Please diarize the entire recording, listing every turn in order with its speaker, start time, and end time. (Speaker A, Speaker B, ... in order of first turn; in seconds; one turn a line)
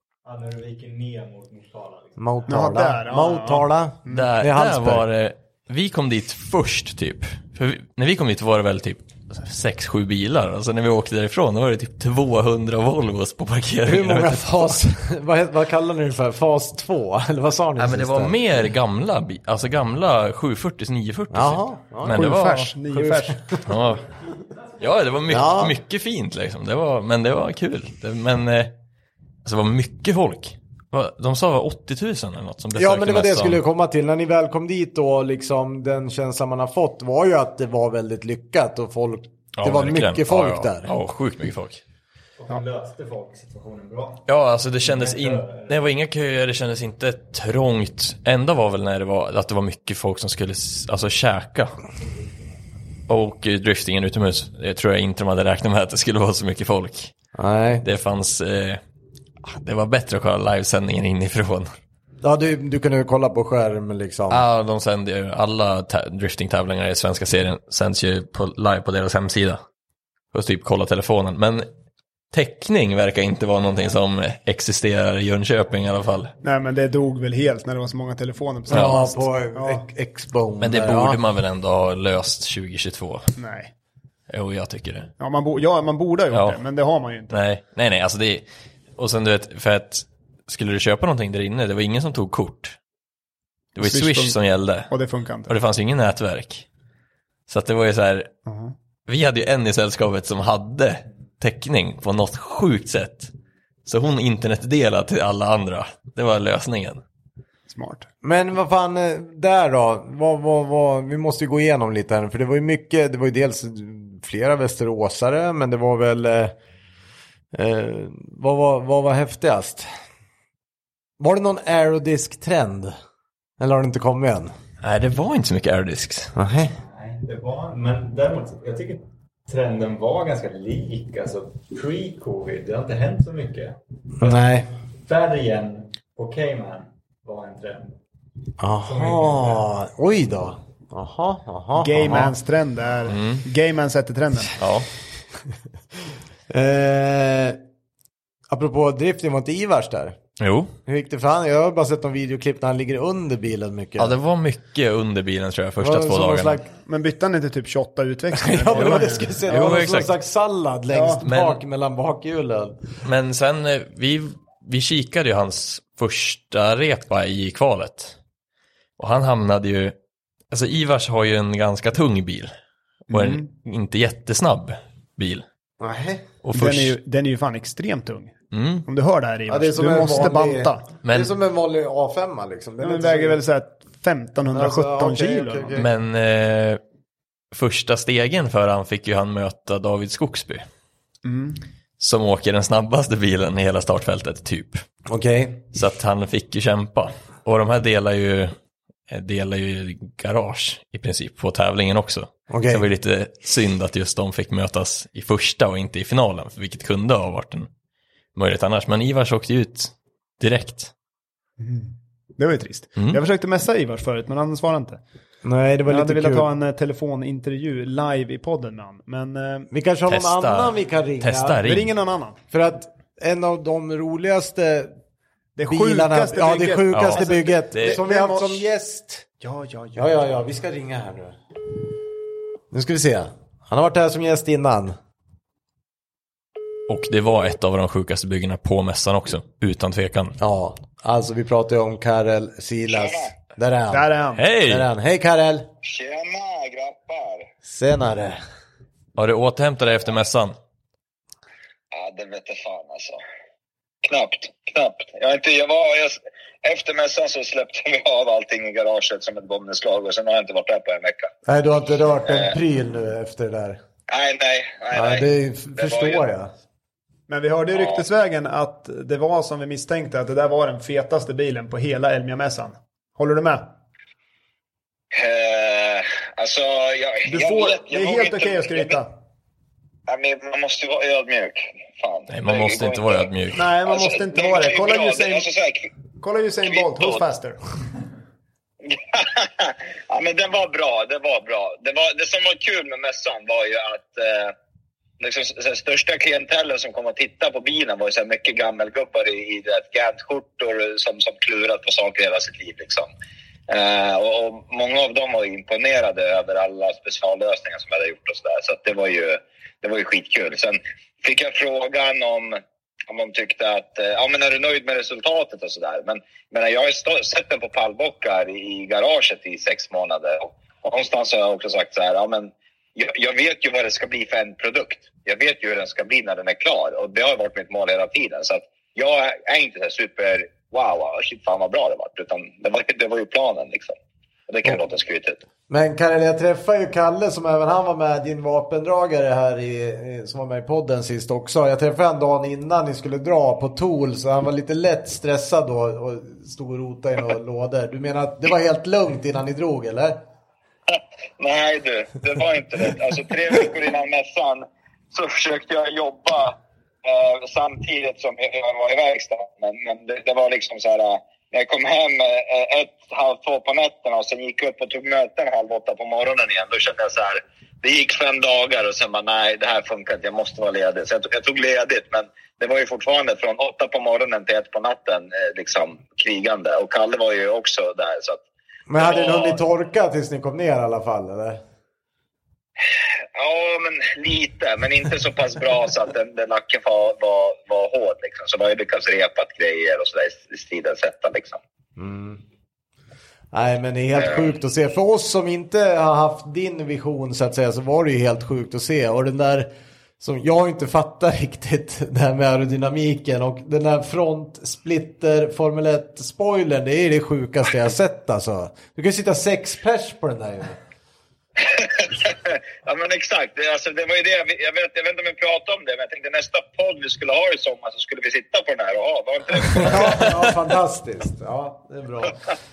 Speaker A: 0.2-2.5
Speaker B: 2.2-5.0
Speaker C: 2.5-4.3
Speaker D: 4.1-14.8
Speaker B: 13.8-18.4
Speaker D: 17.8-22.7
Speaker B: 21.3-23.6
Speaker C: 22.1-23.4
Speaker D: 23.6-24.0
Speaker D: 24.8-28.8
Speaker B: 25.3-25.8
Speaker D: 29.4-33.6
Speaker B: 32.7-40.9
Speaker D: 39.6-41.8
Speaker A: 42.4-44.2
Speaker D: 44.3-51.8
Speaker A: 44.8-45.8
Speaker D: 53.1-57.1
Speaker B: 57.4-57.8
Speaker D: 57.8-58.8
Speaker D: 59.4-61.7
Speaker B: 62.2-64.4
Speaker D: 64.3-69.6
Speaker D: 70.3-71.7
Speaker D: 72.3-76.3
Speaker C: 76.4-79.8
Speaker B: 78.7-81.2
Speaker D: 78.7-79.0
Speaker D: 80.6-83.3
Speaker C: 83.3-83.7
Speaker D: 84.3-85.1
Speaker C: 85.2-87.3
Speaker D: 86.3-86.6
Speaker D: 87.3-88.4
Speaker D: 89.0-92.8
Speaker D: 93.8-94.9
Speaker C: 93.8-94.4
Speaker C: 94.9-95.5
Speaker D: 95.5-96.7
Speaker D: 97.5-98.3
Speaker C: 98.5-98.7
Speaker D: 99.1-103.3
Speaker D: 103.8-107.0
Speaker C: 107.7-108.0
Speaker B: 108.2-116.5
Speaker B: 117.5-119.9
Speaker B: 121.2-122.9
Speaker B: 123.6-124.5
Speaker D: 124.8-126.3
Speaker B: 126.3-126.7
Speaker A: 126.7-134.5
Speaker B: 134.2-134.7
Speaker A: 135.0-137.9
Speaker B: 138.6-142.3
Speaker A: 138.8-139.6
Speaker C: 141.8-144.5
Speaker D: 143.1-143.4
Speaker D: 144.6-144.9
Speaker B: 146.5-147.6
Speaker B: 148.5-150.2
Speaker D: 150.4-150.7
Speaker B: 150.8-154.2
Speaker D: 154.0-156.6
Speaker B: 155.8-156.7
Speaker C: 156.8-159.5
Speaker B: 158.3-162.8
Speaker D: 158.7-160.1
Speaker C: 160.9-161.2
Speaker D: 161.2-161.6
Speaker D: 163.0-168.1
Speaker D: 169.0-169.9
Speaker D: 170.5-172.5
Speaker C: 173.1-173.5
Speaker D: 173.1-175.4
Speaker B: 175.8-176.2
Speaker D: 176.4-177.0
Speaker C: 176.5-178.3
Speaker D: 178.5-178.9
Speaker C: 178.8-180.8
Speaker B: 179.5-183.4
Speaker D: 181.0-181.3
Speaker C: 182.8-185.8
Speaker B: 184.5-185.9
Speaker D: 185.8-186.8
Speaker D: 187.5-190.6
Speaker C: 191.2-191.6
Speaker D: 192.0-194.8
Speaker B: 195.1-195.6
Speaker D: 195.7-198.5
Speaker D: 199.1-207.7
Speaker B: 202.5-202.8
Speaker D: 208.3-210.9
Speaker C: 211.6-215.0
Speaker B: 215.4-216.5
Speaker C: 215.9-219.7
Speaker B: 219.7-221.7
Speaker D: 220.1-221.9
Speaker C: 221.6-222.4
Speaker B: 222.5-224.9
Speaker C: 225.6-228.7
Speaker B: 225.6-229.2
Speaker D: 226.9-228.0
Speaker C: 229.4-230.1
Speaker B: 229.9-231.3
Speaker B: 232.7-234.9
Speaker D: 236.9-240.3
Speaker B: 240.4-245.7
Speaker E: 242.9-243.3
Speaker C: 243.9-244.4
Speaker D: 244.4-244.9
Speaker E: 245.8-247.5
Speaker B: 247.6-248.4
Speaker D: 249.2-250.6
Speaker E: 251.9-253.2
Speaker E: 254.0-261.3
Speaker B: 261.4-263.8
Speaker E: 262.3-262.5
Speaker E: 264.1-266.2
Speaker B: 264.9-266.5
Speaker C: 267.3-273.7
Speaker E: 267.7-268.0
Speaker E: 275.1-279.0
Speaker C: 277.3-279.1
Speaker E: 280.1-283.3
Speaker D: 282.3-283.6
Speaker C: 283.5-285.5
Speaker E: 283.8-285.9
Speaker C: 286.2-287.6
Speaker E: 286.6-287.2
Speaker E: 288.8-294.5
Speaker E: 295.2-303.1
Speaker E: 303.7-333.9
Speaker E: 334.5-335.4
Speaker B: 335.7-350.2
Speaker E: 350.9-378.4
Speaker B: 378.9-381.6
Speaker E: 379.0-379.6
Speaker E: 382.9-391.6
Speaker B: 392.0-392.4
Speaker B: 393.5-410.8
Speaker E: 394.1-394.5
Speaker E: 411.6-420.4
Speaker B: 419.6-422.4